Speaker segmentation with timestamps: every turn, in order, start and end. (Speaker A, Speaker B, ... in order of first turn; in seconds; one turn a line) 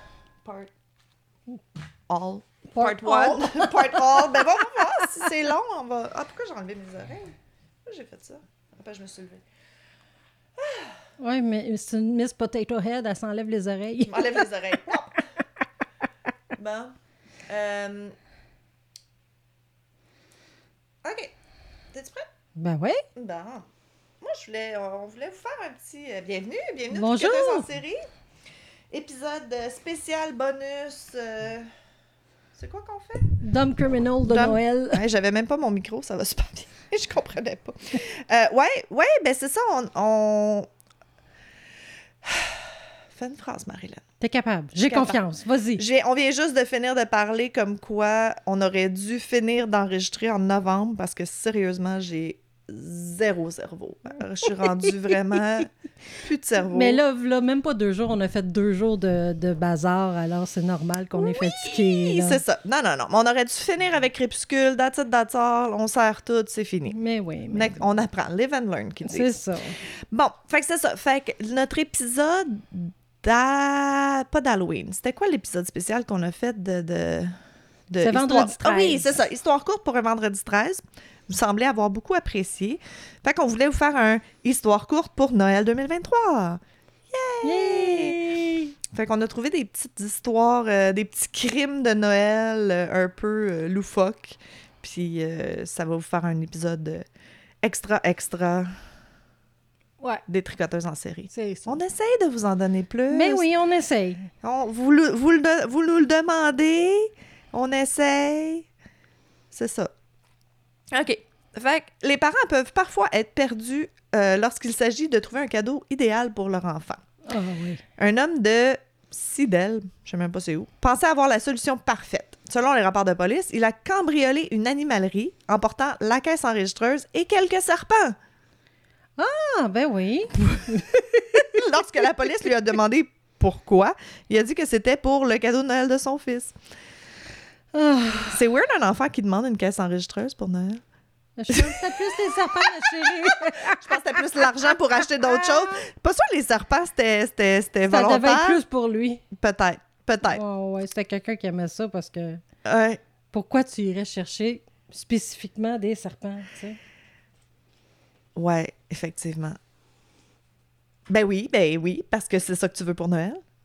Speaker A: 0.4-0.7
Speaker A: 2.1-9.4
Speaker B: 2.8-4.5
Speaker A: 10.6-11.0
Speaker B: 11.2-14.9
Speaker A: 14.1-15.2
Speaker A: 16.5-16.9
Speaker A: 17.5-18.1
Speaker A: 21.0-21.3
Speaker A: 21.9-22.3
Speaker B: 22.6-23.0
Speaker A: 23.1-23.6
Speaker A: 24.2-28.0
Speaker B: 26.9-27.7
Speaker A: 28.9-31.7
Speaker A: 32.5-33.3
Speaker B: 33.4-35.0
Speaker A: 34.3-40.7
Speaker A: 42.2-44.0
Speaker B: 44.2-45.8
Speaker A: 44.9-45.2
Speaker A: 45.8-55.7
Speaker A: 56.2-57.0
Speaker B: 56.7-62.4
Speaker A: 61.1-67.0
Speaker B: 66.9-67.8
Speaker A: 67.5-69.3
Speaker B: 69.0-69.8
Speaker A: 70.1-77.3
Speaker A: 77.9-88.2
Speaker B: 78.0-79.2
Speaker B: 87.4-88.7
Speaker A: 88.9-97.0
Speaker A: 97.6-98.7
Speaker A: 100.3-103.5
Speaker B: 101.3-101.8
Speaker B: 103.1-104.3
Speaker A: 104.4-108.7
Speaker A: 109.5-109.9
Speaker A: 110.9-117.0
Speaker B: 117.3-117.8
Speaker A: 118.0-128.2
Speaker B: 129.2-131.5
Speaker A: 130.5-136.5
Speaker B: 137.7-138.4
Speaker A: 138.3-140.8
Speaker B: 141.4-145.8
Speaker A: 141.5-148.6
Speaker B: 147.9-149.2
Speaker A: 149.3-150.4
Speaker B: 150.3-152.4
Speaker A: 152.7-153.0
Speaker B: 153.3-156.8
Speaker A: 158.3-159.6
Speaker A: 161.1-163.4